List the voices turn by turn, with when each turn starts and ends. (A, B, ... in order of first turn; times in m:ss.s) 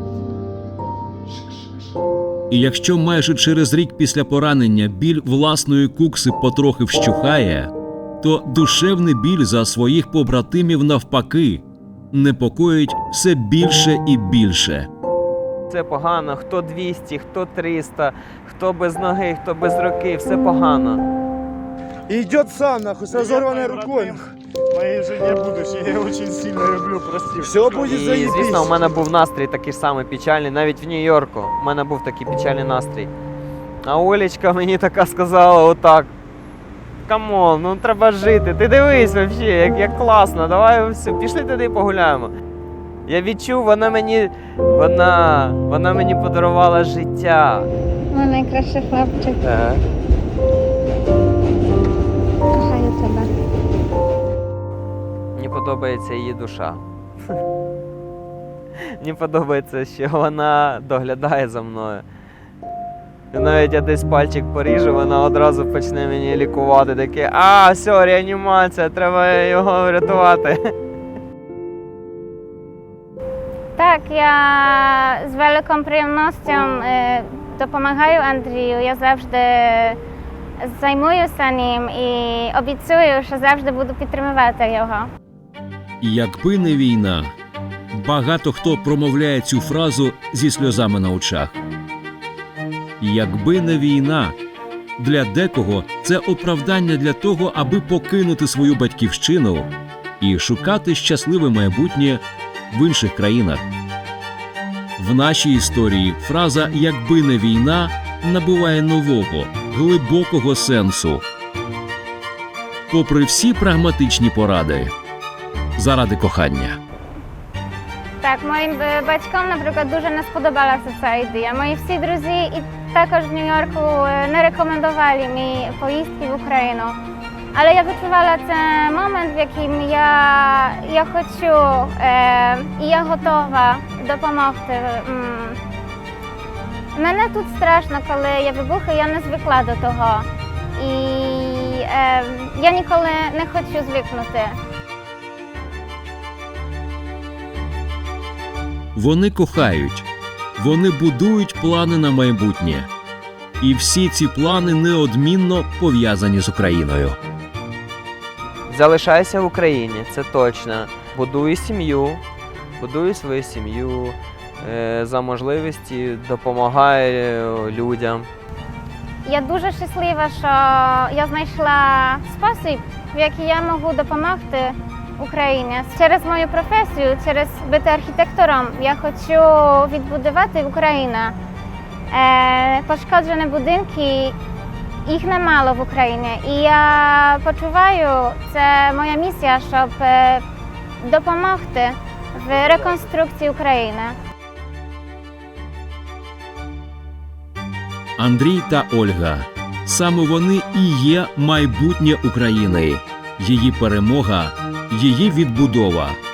0:02.5-0:14.9 A
0:15.7-0:21.0 B
0:22.1-0:24.2 C
0:23.1-0:24.0 D
0:24.7-0:27.4 D
0:25.4-0:25.9 C
0:26.5-0:26.8 C
0:27.4-0:28.8 C
0:27.6-0:33.1 B
0:33.8-0:36.1 B
0:37.0-0:42.3 B
0:43.1-0:47.7 B
0:48.1-0:49.7 E
0:52.5-0:53.3 E
0:55.4-0:56.8 B
0:58.8-1:02.0 B
1:03.3-1:10.7 B
1:13.8-1:20.0 E
1:20.6-1:25.1 E
1:26.0-1:27.3 A
1:27.9-1:31.6 A
1:33.0-1:34.4 A
1:35.0-1:43.6 A
1:45.0-1:51.2 A
1:52.9-1:54.9 A
1:55.8-1:56.8 A
1:58.2-2:07.0 E
2:07.5-2:15.6 E
2:16.9-2:20.2 E
2:20.8-2:24.6 E
2:28.9-2:32.9 A
2:33.6-2:37.2 A
2:38.7-2:42.2 B
2:42.8-2:48.3 B
2:49.2-3:01.3 E
3:02.1-3:04.3 E
3:05.0-3:10.4 E
3:11.0-3:14.2 E
3:18.2-3:26.2 A